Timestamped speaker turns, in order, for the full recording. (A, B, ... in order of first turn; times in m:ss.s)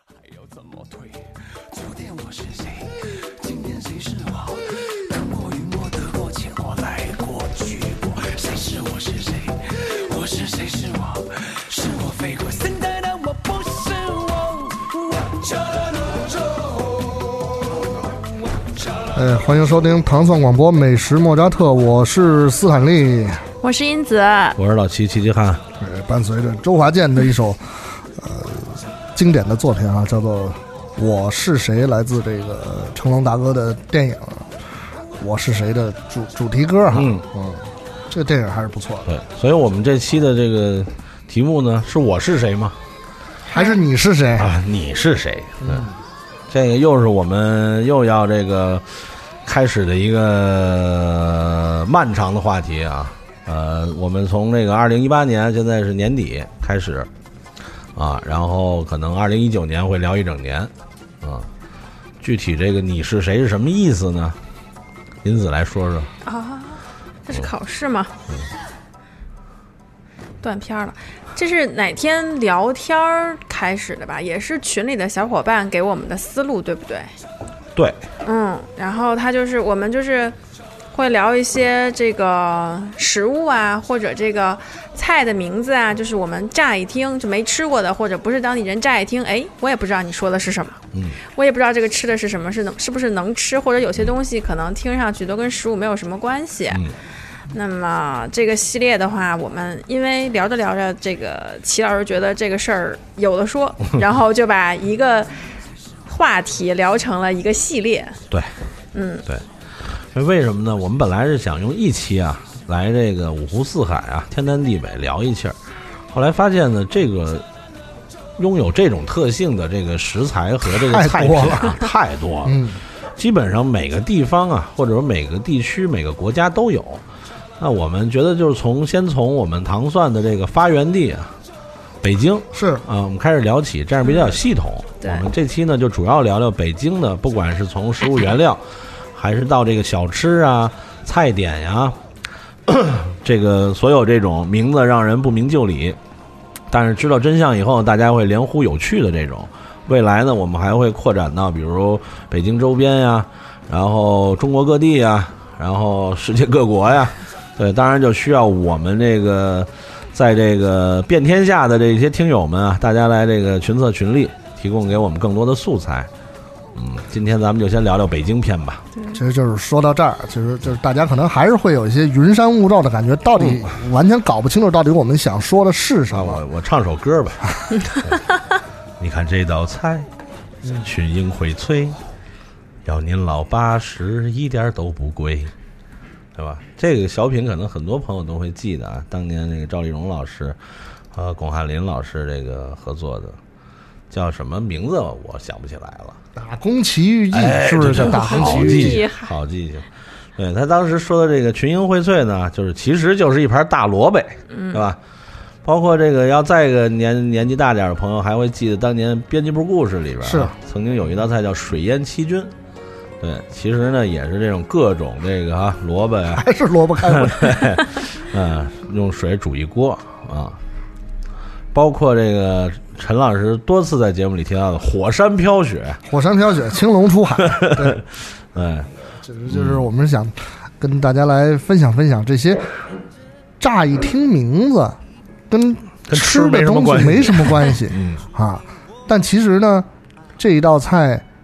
0:00.1-0:17.6 A
0:18.6-0:19.2 A
0:19.1-0:23.5 B
0:23.6-0:24.6 C
0:24.6-0:25.6 D
0:25.8-0:34.6 B
0:35.2-0:39.1 B
0:36.9-0:37.2 D
0:39.0-0:42.8 D
0:43.5-0:43.8 C
0:43.5-0:44.5 B
0:44.4-0:45.9 D
0:46.5-0:57.1 D
0:58.0-1:01.5 D
1:02.2-1:04.4 D
1:05.2-1:06.1 D
1:06.2-1:08.1 C
1:10.4-1:17.1 C
1:18.2-1:20.4 C
1:20.9-1:36.8 C
1:30.9-1:31.2 D
1:37.5-1:48.2 C
1:48.9-1:49.2 C
1:49.3-1:55.6 D
1:56.1-1:57.4 D
1:58.4-2:07.0 D
2:00.7-2:01.8 B
2:02.4-2:02.8 B
2:07.6-2:11.3 D
2:12.0-2:22.0 D
2:12.5-2:12.8 B
2:14.0-2:14.3 C
2:15.0-2:15.3 C
2:22.7-2:26.0 D
2:26.7-2:46.1 D
2:46.7-2:48.8 D
2:49.1-2:56.4 B
2:56.1-2:58.2 D
2:59.0-3:00.1 D
3:00.8-3:02.0 D
3:02.8-3:05.5 D
3:06.4-3:10.6 D
3:11.1-3:13.4 D
3:14.1-3:16.2 D
3:16.4-3:19.0 B
3:17.3-3:25.0 D
3:18.0-3:19.3 C
3:24.5-3:24.8 C
3:25.6-3:32.5 D
3:30.2-3:30.5 B
3:33.2-3:36.5 D
3:36.4-3:37.6 B
3:37.0-3:40.6 D
3:41.7-3:46.0 D
3:46.0-3:48.0 B
3:47.4-3:48.9 D
3:49.2-3:52.7 B
3:49.5-3:49.9 D
3:53.6-3:55.0 B
3:55.5-3:59.9 B
3:56.1-3:58.2 D
4:00.4-4:01.2 B